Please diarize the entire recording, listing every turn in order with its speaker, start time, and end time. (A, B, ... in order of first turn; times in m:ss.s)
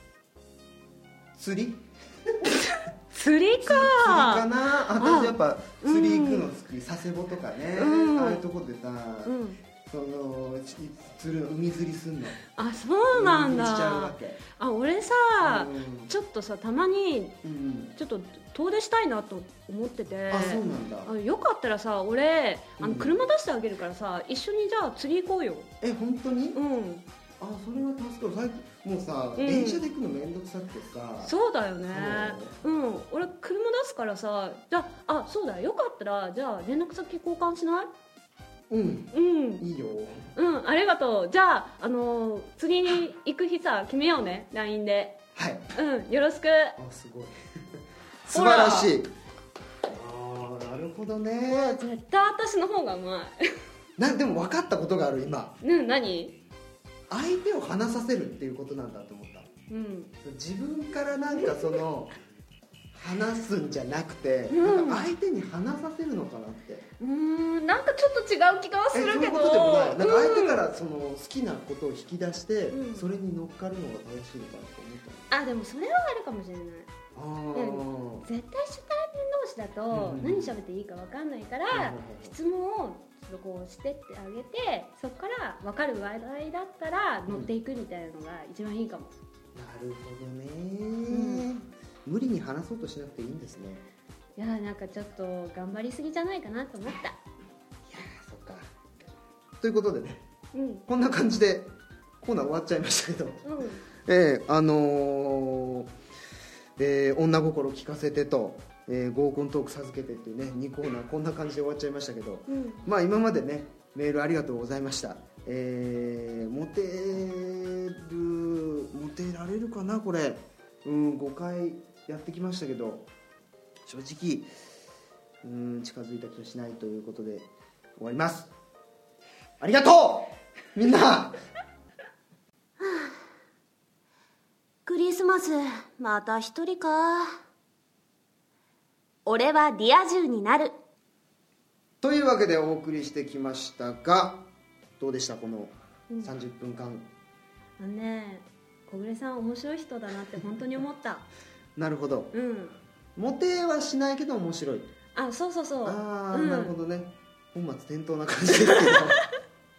0:01.3-0:02.6 A
0:02.4-0:04.4 B
0:03.6-0:12.4 A
0:05.0-0:06.5 B
0:07.8-0:08.5 B
0:09.2-0:09.6 B
0:12.6-0:17.4 B
0:13.1-0:14.4 A
0:15.4-0:16.1 A
0:17.4-0:18.0 A
0:18.0-0:25.7 B
0:20.3-0:21.1 A
0:22.8-0:23.2 A
0:25.8-0:26.6 A
0:26.5-0:27.0 B
0:27.4-0:32.6 A
0:29.4-0:29.8 B
0:31.2-0:37.9 B
0:38.7-0:40.3 A
0:39.1-0:39.6 B
0:40.3-0:45.2 B
0:45.3-0:45.7 A
0:45.7-0:46.8 B
0:46.8-0:49.1 A
0:48.3-0:48.9 B
0:49.8-0:51.8 A
0:51.4-0:53.4 B
0:54.0-0:55.6 A
0:55.6-0:56.4 B
0:57.1-0:59.5 A
0:59.7-1:00.1 B
1:00.2-1:02.1 A
1:01.3-1:01.8 B
1:02.9-1:06.8 A
1:04.5-1:05.1 B
1:07.0-1:10.6 B
1:08.9-1:15.3 A
1:12.7-1:13.1 B
1:15.3-1:16.9 B
1:17.1-1:18.2 A
1:17.5-1:29.1 B
1:19.9-1:20.5 A
1:21.7-1:22.4 A
1:29.5-1:33.8 A
1:31.1-1:31.5 B
1:34.4-1:37.2 B
1:37.9-1:38.7 A
1:39.6-1:40.2 A
1:40.5-1:40.8 B
1:40.9-1:45.9 A
1:43.4-1:43.8 B
1:46.8-2:03.1 A
1:52.5-1:52.8 B
2:03.8-2:04.5 A
2:05.4-2:08.5 A
2:09.6-2:11.4 A
2:12.8-2:13.1 B
2:14.8-2:17.4 B
2:19.2-2:20.7 B
2:22.0-2:24.4 A
2:25.0-2:27.1 A
2:27.8-2:31.3 B
2:31.8-2:32.3 A
2:32.3-2:32.7 B
2:33.2-2:34.9 A
2:35.1-2:36.7 B
2:35.8-2:39.2 A
2:38.6-2:39.2 B